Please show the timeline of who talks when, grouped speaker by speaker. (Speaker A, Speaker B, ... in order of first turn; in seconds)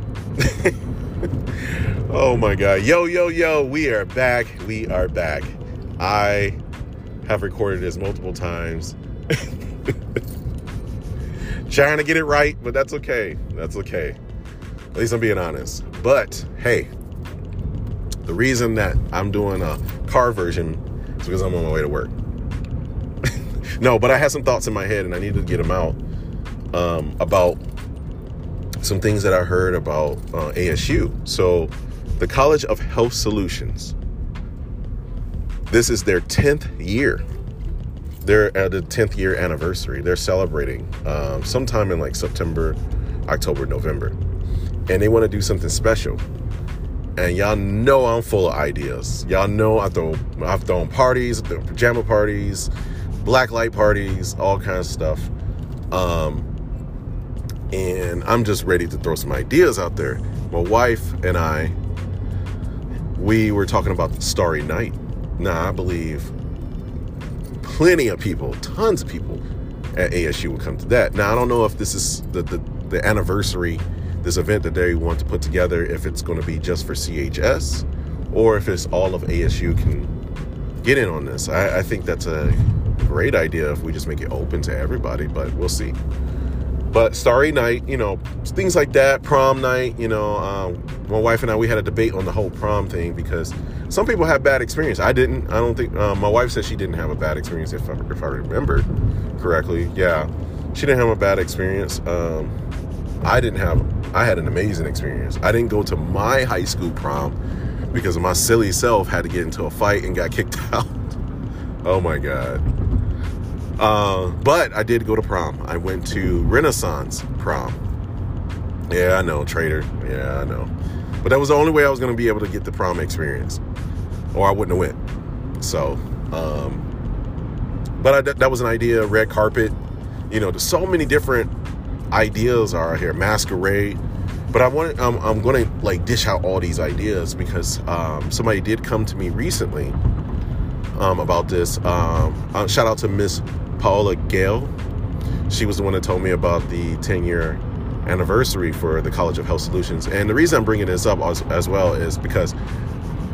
Speaker A: 0.4-0.8, 1.5-6.6, 7.2-9.9, 11.6-14.2, 14.9-16.9, 18.2-22.1, 23.8-26.0, 26.7-27.6, 28.8-34.0, 35.7-37.2, 38.2-44.2, 44.9-46.2, 47.2-52.7, 53.2-55.3, 55.9-56.5, 57.7-61.8, 63.1-66.3, 67.6-80.1, 80.8-86.0, 86.9-102.5, 103.2-107.4, 107.9-111.2, 111.8-112.6, 113.8-117.8, 118.9-123.6, 124.3-125.0, 125.6-126.9, 128.0-129.8, 130.3-131.5, 132.1-134.0, 134.5-140.0, 140.9-144.7, 145.5-152.6